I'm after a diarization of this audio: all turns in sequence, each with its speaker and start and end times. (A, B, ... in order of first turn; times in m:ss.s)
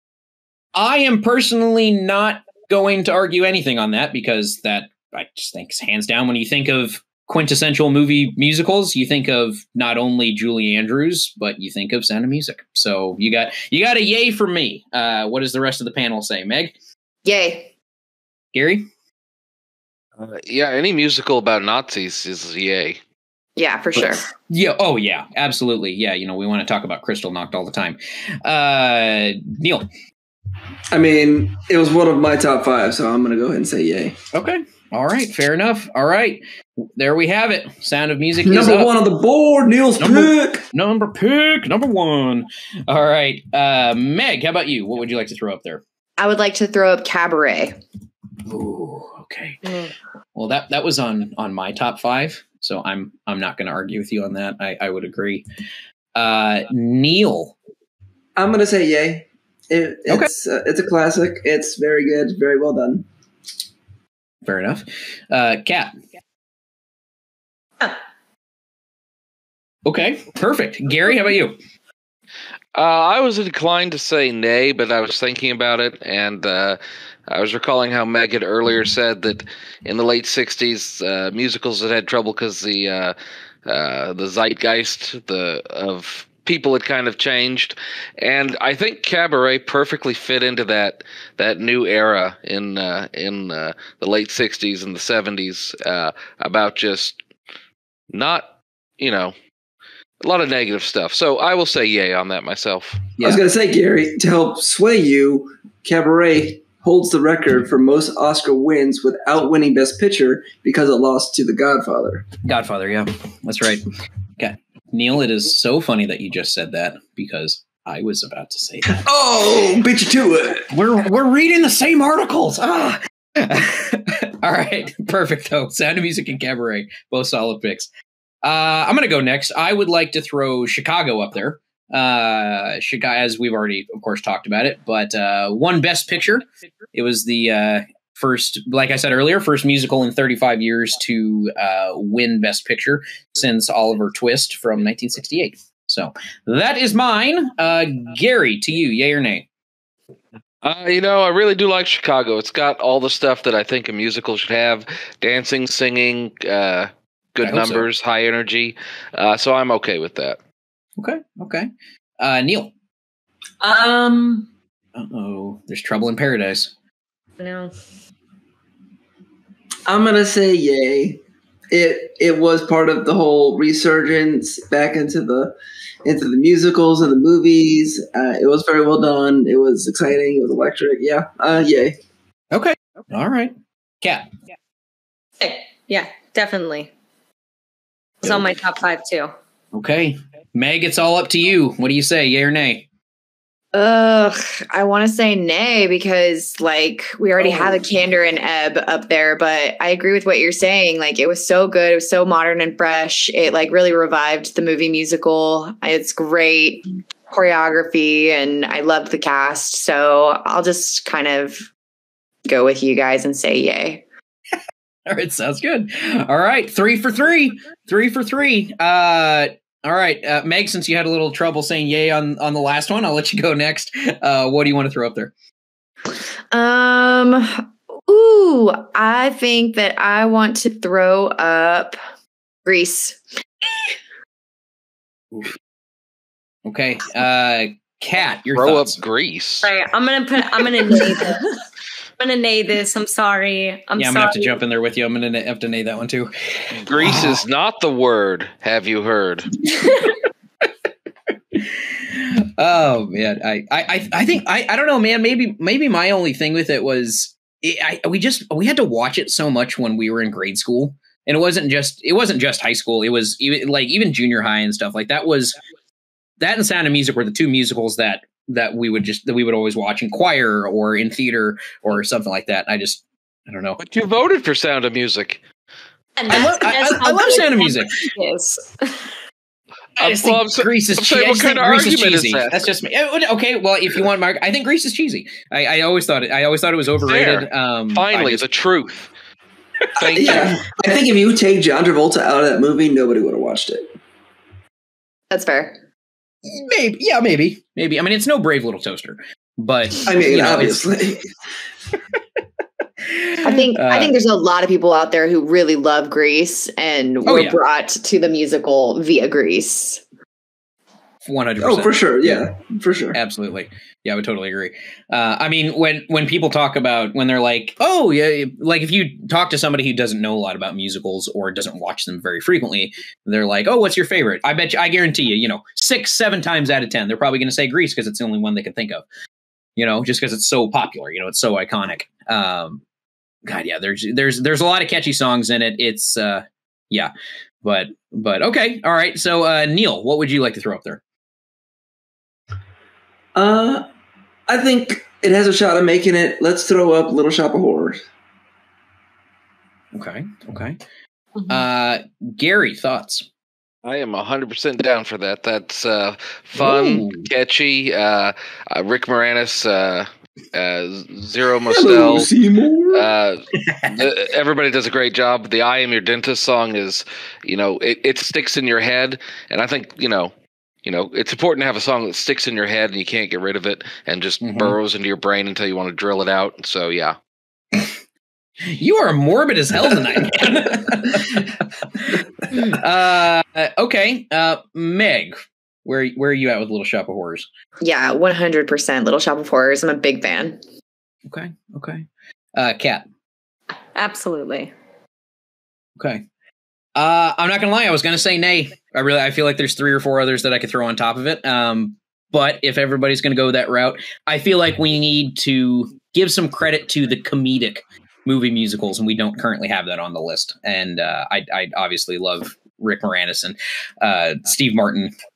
0:00.8-0:16.8 A
0:17.2-0:17.7 B
0:18.5-0:18.9 A
0:20.2-0:23.0 C
0:23.6-0:24.2 B
0:24.5-0:29.9 A
0:30.9-0:34.2 D
0:34.3-0:38.9 A
0:38.4-0:40.6 D
0:40.0-0:45.8 A
0:46.2-0:47.8 B
0:48.5-0:49.6 A
0:50.4-0:55.4 A
0:56.2-0:57.6 A
0:58.4-1:03.1 D
1:04.4-1:05.9 A
1:09.8-1:11.6 A
1:12.8-1:37.2 C
1:38.1-1:38.5 C
1:39.0-1:39.3 C
1:40.2-1:43.1 C
1:43.2-1:52.3 D
1:52.4-1:53.8 A
1:54.4-1:59.0 A
1:58.9-2:00.7 D
2:00.7-2:07.9 A
2:08.4-2:29.5 A
2:30.6-2:40.4 C
2:37.4-2:37.9 A
2:41.0-2:41.7 A
2:42.2-2:42.7 A
2:43.6-2:44.5 E
2:45.0-2:46.7 A
2:47.4-2:47.7 E
2:49.9-3:02.0 D
3:02.5-3:04.3 A
3:05.4-3:06.9 E
3:08.2-3:09.3 E
3:09.7-3:12.8 A
3:13.7-3:31.7 B
3:32.5-3:34.0 B
3:35.1-3:45.3 A
3:46.5-3:52.0 B
3:52.6-3:53.2 B
3:56.6-3:59.0 A
3:58.5-3:59.7 C
3:59.6-4:01.5 E
4:02.2-4:04.6 E
4:04.0-4:07.5 A
4:06.7-4:09.6 C
4:11.5-4:25.6 A
4:26.4-4:33.8 A
4:33.8-4:35.4 C
4:36.2-4:39.1 E
4:36.3-4:37.9 A
4:40.0-4:42.7 C
4:40.0-4:48.4 A
4:47.0-4:49.1 C
4:50.0-4:50.6 C
4:50.0-4:53.9 D
4:55.3-4:55.8 B
4:56.4-5:00.9 A
5:00.0-5:01.3 D
5:03.0-5:04.2 A
5:03.4-5:10.0 B
5:07.2-5:07.6 A
5:11.2-5:12.5 A
5:11.6-5:13.2 D
5:13.1-5:29.0 A
5:29.8-5:32.8 A
5:33.5-5:37.1 A
5:37.6-5:41.0 A
5:43.4-5:43.9 D
5:44.5-5:48.0 D
5:49.9-5:50.8 A
5:51.5-5:53.3 A
5:53.8-6:02.3 C
5:56.6-5:57.3 A
6:01.7-6:03.1 D
6:02.9-6:10.3 C
6:03.6-6:04.0 A
6:10.8-6:17.2 C
6:14.4-6:14.8 A
6:18.6-6:27.5 A
6:27.8-6:30.6 B
6:31.3-6:33.0 A
6:34.0-6:34.7 E
6:36.0-6:36.2 A
6:37.0-6:55.1 A